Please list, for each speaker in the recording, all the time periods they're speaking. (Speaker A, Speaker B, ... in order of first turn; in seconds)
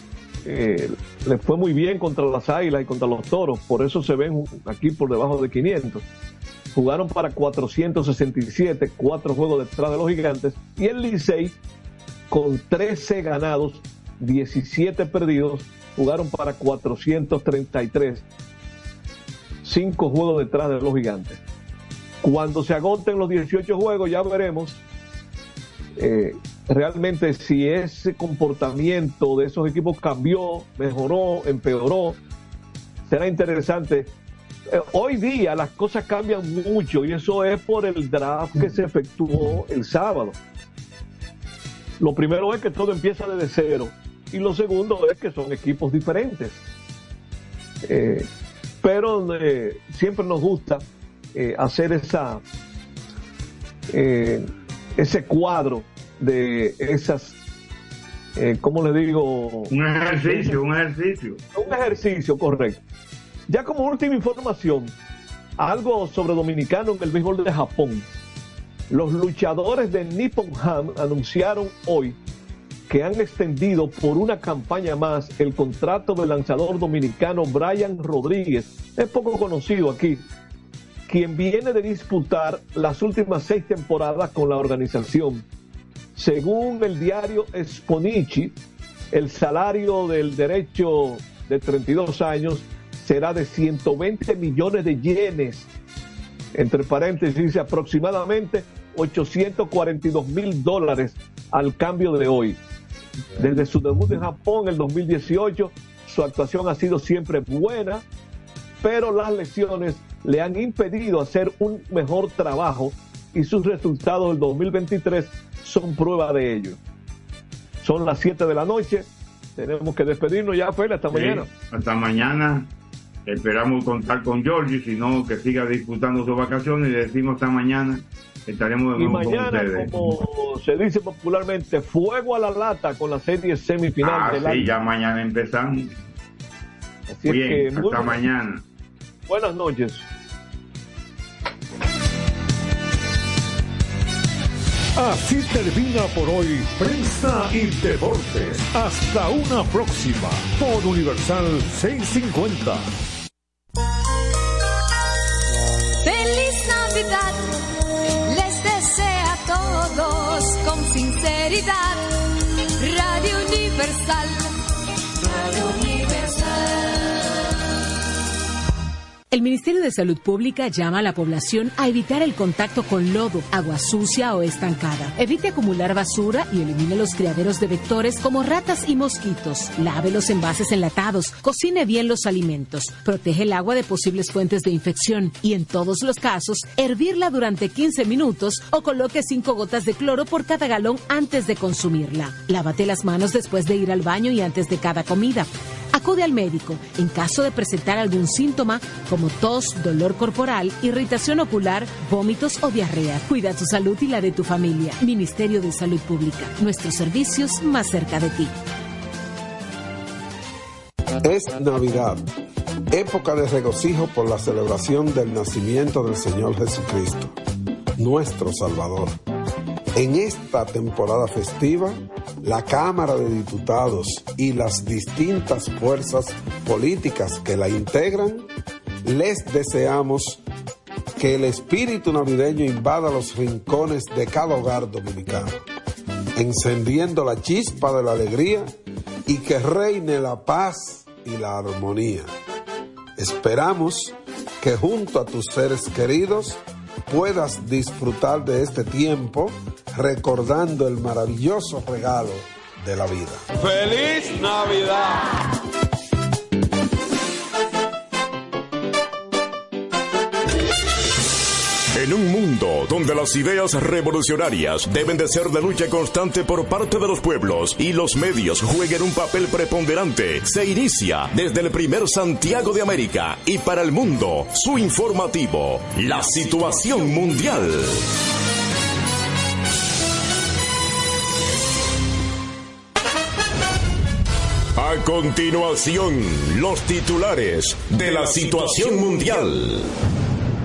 Speaker A: 0.4-6.0, 6.7-11.6, 12.3-18.2, 19.6-21.4, 22.2-24.8, 26.0-32.2, 33.1-34.1, 34.7-40.4, 42.0-46.6, 47.9-48.3, 48.8-52.4, 53.9-57.4, 58.4-59.7, 60.2-60.5, 61.5-62.8, 63.5-64.9, 65.6-68.1, 68.9-72.2, 72.9-80.2, 81.1-85.4, 86.2-88.5, 89.1-95.7, 96.5-102.6, 103.3-108.0, 108.8-116.8, 117.8-121.5, 128.9-134.7, 137.1-138.2, 139.3-140.1
Speaker B: 59.7-61.4, 121.1-122.7, 123.2-130.2, 134.0-135.9, 137.2-138.6
Speaker C: 144.9-152.8
Speaker D: 156.0-157.4, 158.3-162.1, 162.8-164.5, 165.2-167.1
Speaker E: 169.3-208.5
Speaker F: 211.2-212.2, 212.9-217.3, 218.0-219.2, 219.9-228.4, 229.1-230.4, 231.2-235.6, 236.3-238.7, 239.3-242.3, 243.2-253.4, 254.3-254.7
Speaker G: 261.9-278.0, 284.8-289.9